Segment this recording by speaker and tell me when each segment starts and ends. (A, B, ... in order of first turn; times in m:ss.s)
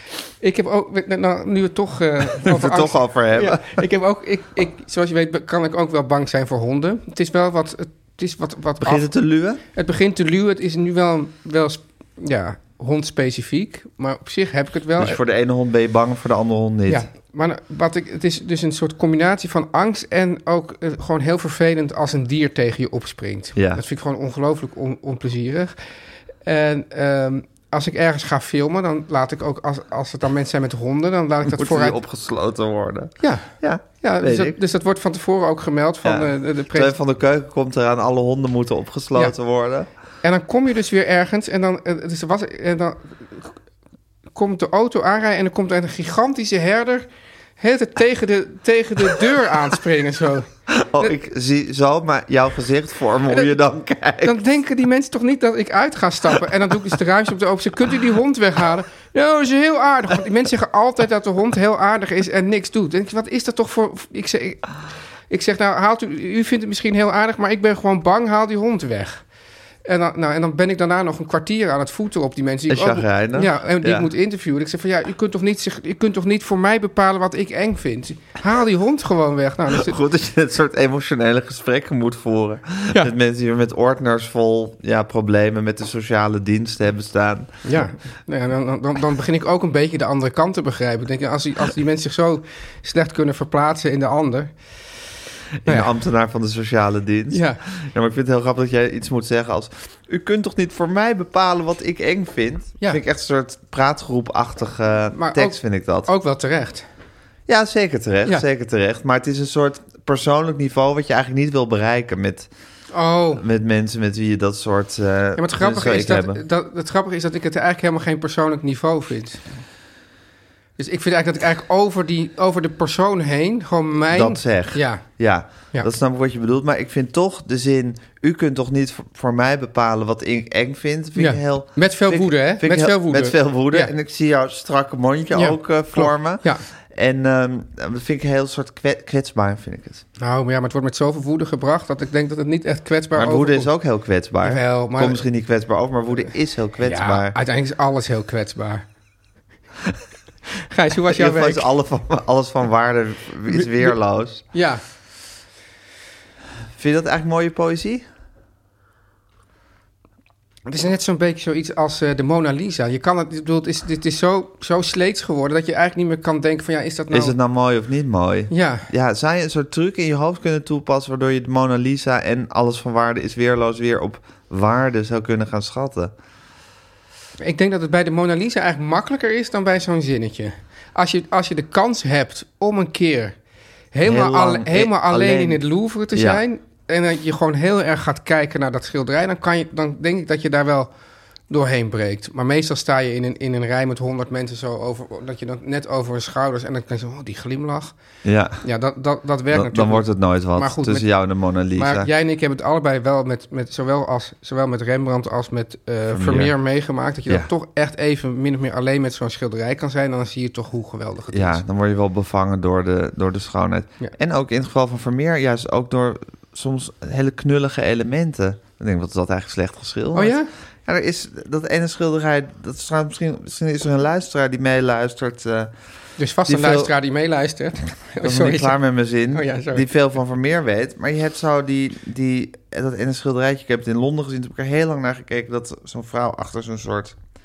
0:00.4-0:09.1 A
0:02.4-0:03.8 B
0:08.8-0:09.6 B
0:09.7-0:15.2 A
0:15.0-0:17.1 B
0:16.9-0:25.8 A
0:23.6-0:23.8 B
0:26.4-0:32.0 A
0:31.5-0:34.6 B
0:33.2-0:36.9 A
0:36.0-0:39.9 B
0:40.2-0:43.5 A
0:44.3-0:47.0 A
0:47.6-0:50.5 A
0:50.7-0:54.4 B
0:54.2-1:04.6 A
1:05.3-1:09.2 A
1:09.8-1:20.0 A
1:12.7-1:14.1 B
1:19.7-1:27.8 B
1:27.6-1:34.5 A
1:35.6-1:46.1 B
1:35.6-1:35.9 A
1:37.3-1:37.6 A
1:45.1-1:46.8 A
1:47.5-1:52.5 B
1:52.9-1:53.4 A
1:53.4-1:56.4 B
1:55.4-1:59.4 A
2:00.8-2:05.0 A
2:04.1-2:20.0 B
2:11.2-2:13.9 A
2:15.3-2:16.6 A
2:20.2-2:23.7 A
2:23.2-2:27.4 B
2:24.4-2:25.2 A
2:26.8-2:28.8 A
2:30.7-2:31.7 A
2:31.1-2:34.4 B
2:33.5-2:34.0 A
2:34.5-2:34.8 A
2:36.7-2:38.0 B
2:40.7-2:47.4 A
2:47.1-2:56.1 B
2:48.5-2:48.9 A
2:57.4-3:03.4 A
3:03.9-3:10.9 A
3:04.0-3:06.4 B
3:11.5-3:18.0 A
3:18.2-3:18.6 B
3:18.6-3:21.1 A
3:19.5-3:22.1 B
3:21.8-3:31.6 A
3:26.1-3:26.6 B
3:31.3-3:45.7 B
3:40.1-3:40.5 A
3:46.2-3:48.8 A
3:46.5-3:46.9 B
3:48.2-3:57.2 B
3:49.3-3:49.9 A